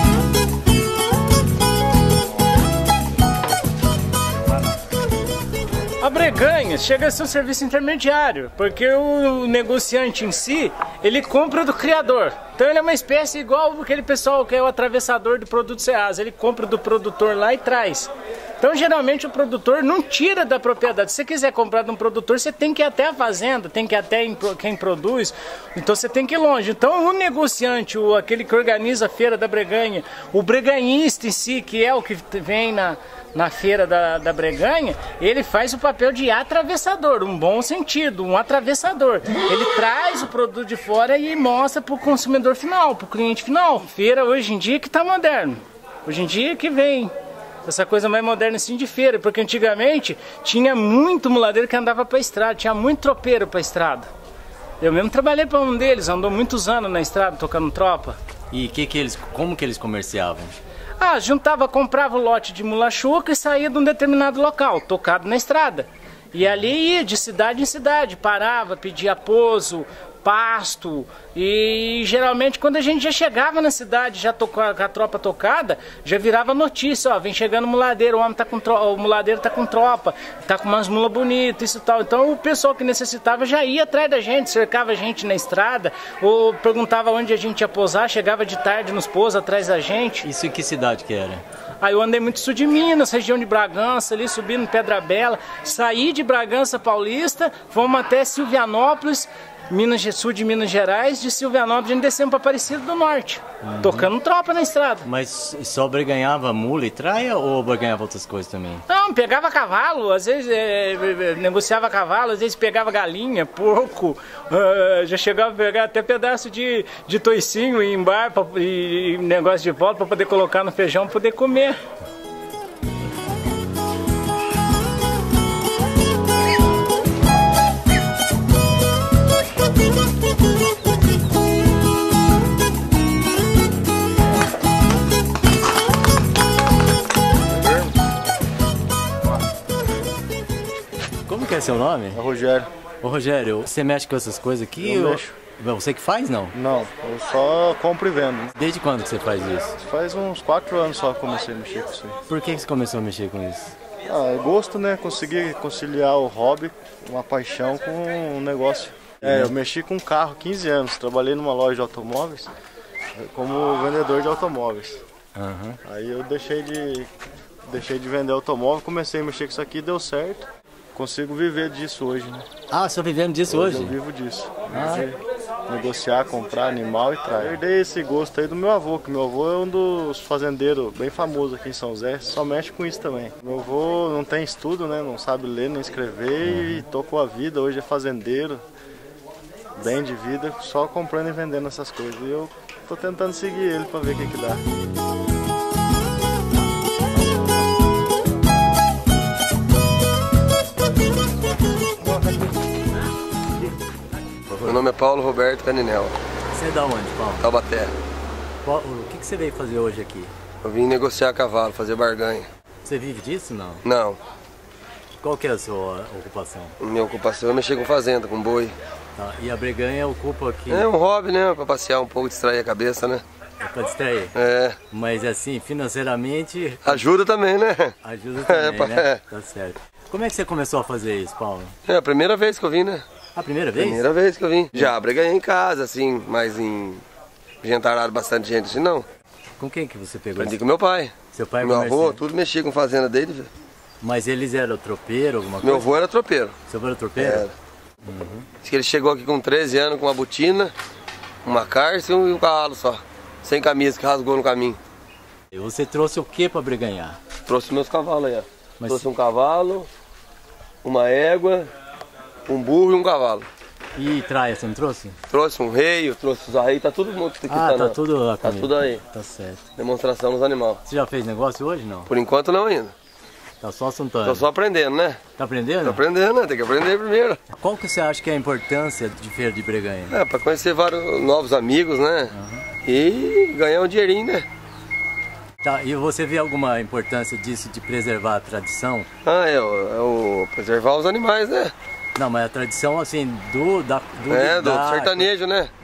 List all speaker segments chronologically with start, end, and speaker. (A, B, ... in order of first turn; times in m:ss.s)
0:06.0-0:47.1 A
0:47.7-0:54.1 A
0:54.8-0:58.2 A
0:58.5-1:00.6 B
1:01.0-1:30.3 A
1:30.2-1:31.4 B
1:31.8-1:45.1 A
1:43.6-1:44.1 B
1:45.1-1:48.8 B
1:48.9-2:01.8 A
2:21.3-2:22.2 B
2:22.1-2:22.7 C
2:23.0-2:26.5 B
2:24.8-2:25.4 C
2:26.5-2:28.6 C
2:28.6-2:29.7 B
2:29.8-2:32.2 C
2:32.3-2:33.7 B
2:34.1-2:42.5 C
2:43.2-2:45.0 C
2:45.4-2:45.8 B
2:45.8-2:47.1 C
2:47.7-2:52.5 C
2:52.7-2:53.8 B
2:53.5-3:08.6 C
3:09.8-3:14.6 C
3:24.6-3:26.1 D
3:26.5-3:27.4 B
3:27.4-3:27.9 D
3:28.6-3:30.3 B
3:30.6-3:32.5 D
3:32.8-3:33.8 B
3:33.8-3:34.2 D
3:35.2-3:36.7 B
3:36.8-3:38.7 D
3:39.2-3:40.8 B
3:40.7-3:43.2 D
3:43.6-3:44.3 B
3:44.3-3:44.8 D
3:44.9-3:47.0 B
3:46.8-3:49.2 D
3:48.0-3:51.7 B
3:51.9-3:53.0 D
3:53.4-3:54.0 B
3:53.7-3:57.0 D
3:57.6-3:59.0 D
3:59.6-4:00.5 B
4:00.4-4:03.5 D
4:01.3-4:02.2 B
4:04.0-4:05.8 B
4:05.6-4:06.6 D
4:06.7-4:07.4 B
4:07.2-4:07.5 D
4:08.1-4:08.4 B
4:08.6-4:10.7 D
4:11.4-4:14.8 D
4:15.5-4:17.2 B
4:17.5-4:19.9 D
4:20.8-4:21.7 D
4:22.5-4:23.5 D
4:24.0-4:25.2 B
4:25.3-4:29.0 D
4:27.5-4:29.6 B
4:29.8-4:30.8 D
4:30.9-4:32.1 B
4:32.1-4:32.9 D
4:33.6-4:34.4 B
4:34.2-4:35.3 D
4:35.4-4:36.0 B
4:35.8-4:37.4 D
4:37.6-4:40.1 B
4:40.1-4:42.3 D
4:42.8-4:44.5 D
4:45.6-4:49.1 B
4:49.2-4:51.7 D
4:52.2-4:55.0 B
4:54.3-4:55.7 D